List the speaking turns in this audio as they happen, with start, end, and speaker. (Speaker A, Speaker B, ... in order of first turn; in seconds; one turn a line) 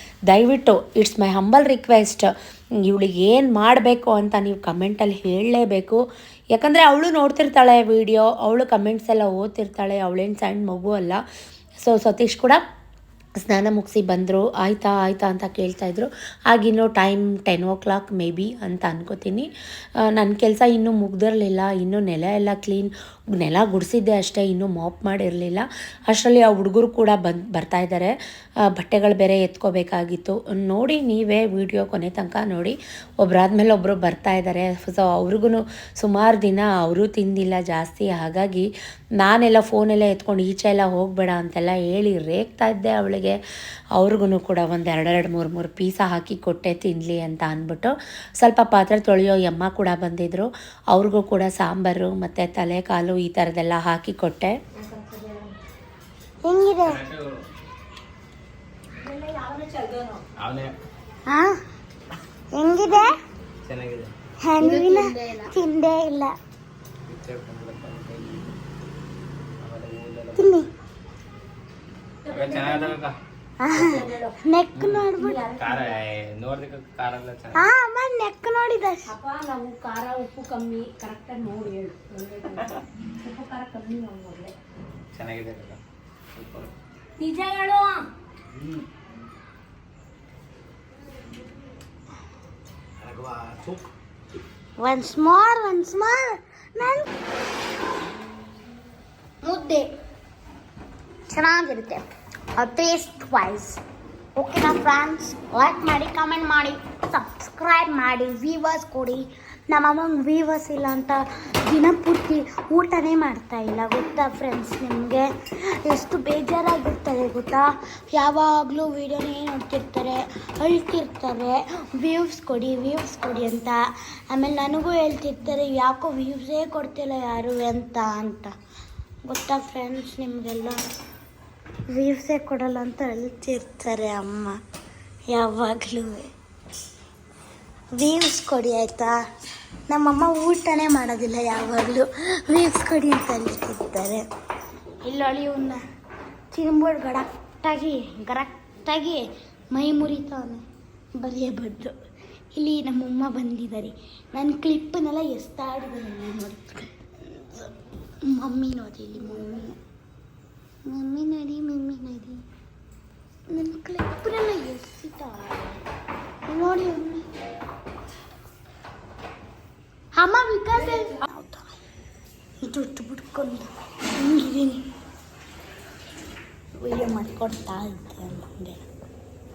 Speaker A: 0.3-6.0
Speaker A: 6.5-11.2
Speaker A: 11.8-12.6
Speaker A: 13.4-43.4
Speaker A: 44.0-54.6
Speaker B: 56.4-57.0
Speaker C: 56.8-57.4
Speaker A: 59.3-60.0
Speaker C: 60.4-60.7
Speaker B: 61.3-61.6
Speaker B: 62.5-63.1
Speaker C: 63.7-64.1
Speaker B: 64.4-66.3
Speaker C: 67.0-68.5
Speaker C: 69.6-70.6
Speaker B: 70.4-70.7
Speaker C: 72.3-73.1
Speaker B: 73.6-75.5
Speaker C: 73.8-74.0
Speaker C: 74.8-77.6
Speaker A: 75.2-75.7
Speaker B: 77.5-79.1
Speaker A: 79.2-82.6
Speaker A: 83.2-84.5
Speaker C: 85.1-85.8
Speaker C: 86.4-86.7
Speaker A: 87.3-87.6
Speaker C: 88.5-88.8
Speaker C: 93.0-93.8
Speaker B: 94.8-97.1
Speaker B: 99.4-99.9
Speaker B: 101.3-103.8
Speaker B: 104.4-128.5
Speaker B: 129.3-130.8
Speaker B: 131.9-134.6
Speaker B: 135.3-136.3
Speaker B: 137.9-139.2
Speaker B: 139.9-144.2
Speaker B: 145.0-145.8
Speaker B: 146.5-150.7
Speaker B: 151.2-152.0
Speaker B: 152.5-159.8
Speaker B: 160.9-162.4
Speaker B: 163.5-165.8
Speaker B: 166.5-167.3
Speaker B: 170.2-171.8
Speaker B: 172.6-174.9
Speaker B: 176.8-178.8